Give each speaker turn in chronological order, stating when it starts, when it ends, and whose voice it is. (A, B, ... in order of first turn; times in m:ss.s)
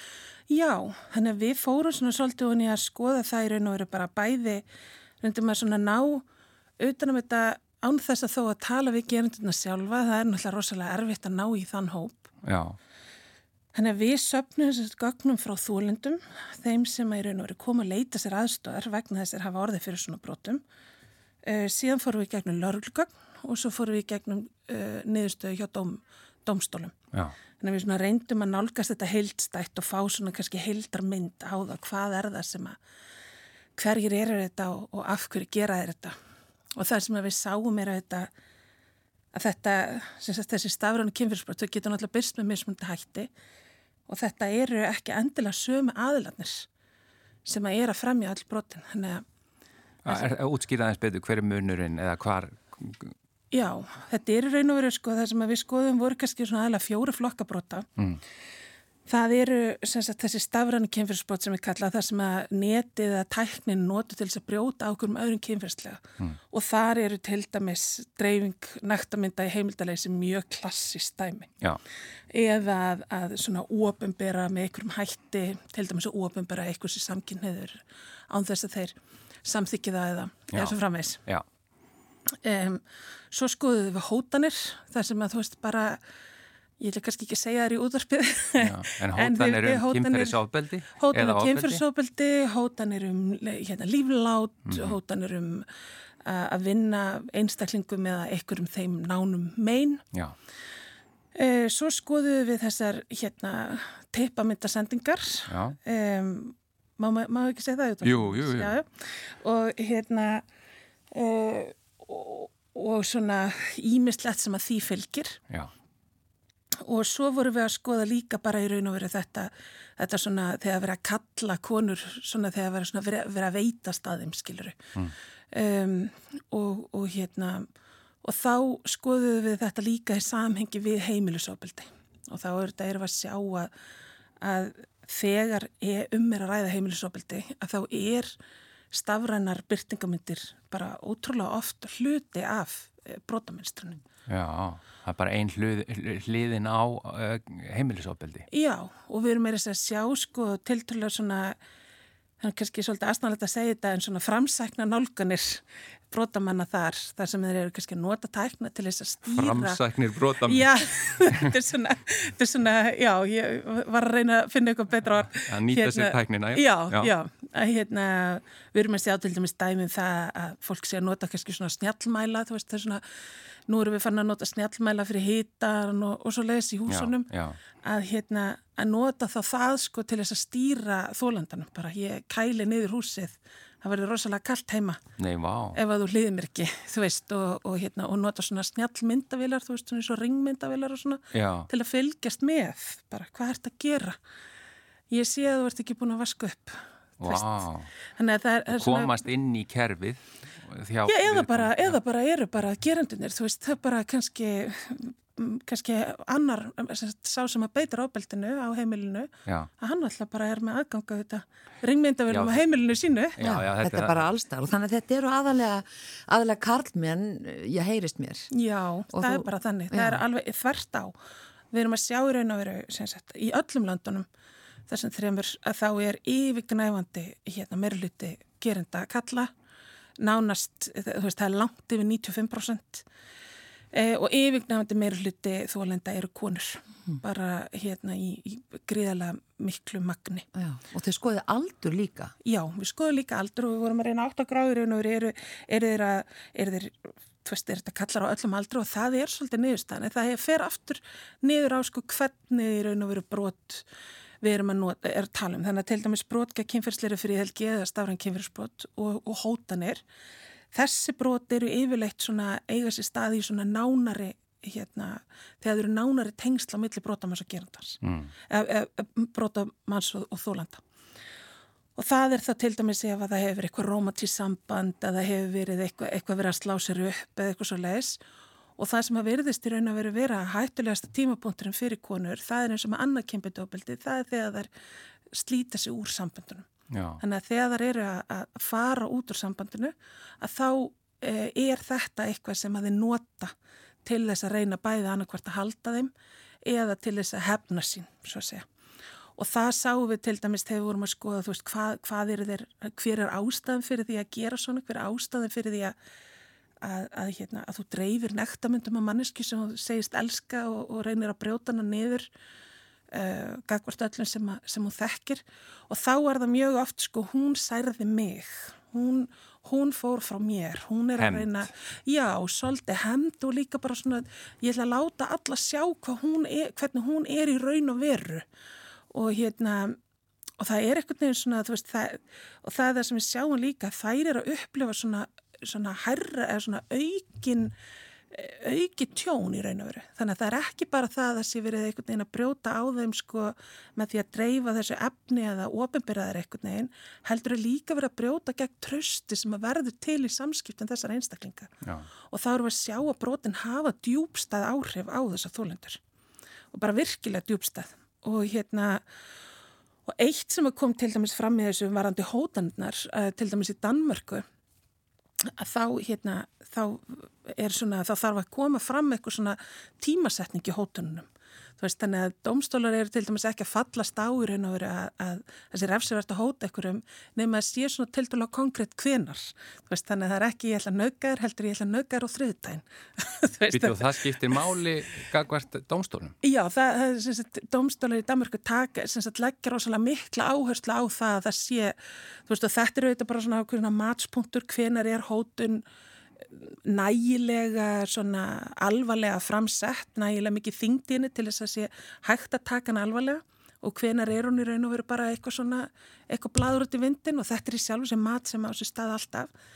0:00.5-0:04.6 A
0:05.2-0:06.2 A
0:06.8-0:12.3 A
0:12.4-0:12.8 B
0:13.7-0:20.6 A
0:21.4-0:26.9 A
0:27.6-0:32.8 A
0:33.8-0:36.2 A
0:36.8-0:38.3 A
0:39.3-0:43.3 A
0:44.1-0:46.7 A
0:47.4-0:49.2 A
0:50.0-0:53.1 B
0:53.5-0:57.9 A
0:59.1-1:11.5 A
1:12.3-1:21.2 A
1:22.4-1:26.0 A
1:26.8-1:35.7 A
1:28.6-1:31.8 B
1:34.6-1:35.0 B
1:36.2-1:40.0 A
1:41.3-1:50.4 A
1:45.5-1:45.8 B
1:48.0-1:48.7 B
1:51.1-1:55.4 A
1:56.8-2:04.8 A
2:05.5-2:07.7 A
2:08.2-2:13.7 A
2:14.4-2:18.3 A
2:18.9-2:24.0 A
2:24.3-2:28.5 B
2:28.5-2:31.6 A
2:32.4-2:39.8 A
2:39.3-2:41.5 B
2:40.4-2:53.0 A
2:45.3-2:47.1 B
2:53.7-2:57.3 A
2:56.9-2:57.6 B
2:57.8-3:05.0 A
3:05.2-3:05.8 B
3:05.7-3:14.2 A
3:11.3-3:11.7 B
3:15.1-3:17.6 A
3:17.2-3:17.9 B
3:18.2-3:19.1 A
3:18.7-3:22.0 B
3:21.1-3:33.4 A
3:32.3-3:32.6 B
3:33.4-3:34.2 B
3:33.4-3:38.5 C
3:38.5-3:41.2 A
3:39.1-3:40.2 C
3:41.7-3:44.2 A
3:44.9-3:49.5 A
3:50.2-3:53.0 A
3:53.9-4:00.4 A
4:00.5-4:02.3 C
4:02.4-4:13.8 A
4:14.4-4:20.0 A
4:20.7-4:28.0 A
4:28.0-4:28.3 B
4:28.5-4:30.8 A
4:32.0-4:38.2 A
4:38.8-4:44.7 A
4:45.3-4:46.7 A
4:46.9-4:47.2 B
4:47.2-4:53.5 A
4:54.0-4:56.1 A
4:56.6-4:58.6 A
4:59.4-5:05.9 A
5:06.8-5:12.3 A
5:13.1-5:28.4 A
5:21.2-5:21.6 B
5:29.1-5:30.0 A
5:30.6-5:37.7 A
5:38.3-5:51.7 A
5:52.3-5:56.0 A
5:56.7-5:59.0 A
6:00.1-6:04.4 A
6:05.6-6:11.3 A
6:11.8-6:24.6 A
6:23.7-6:26.3 B
6:26.4-6:35.8 A
6:36.5-6:49.5 A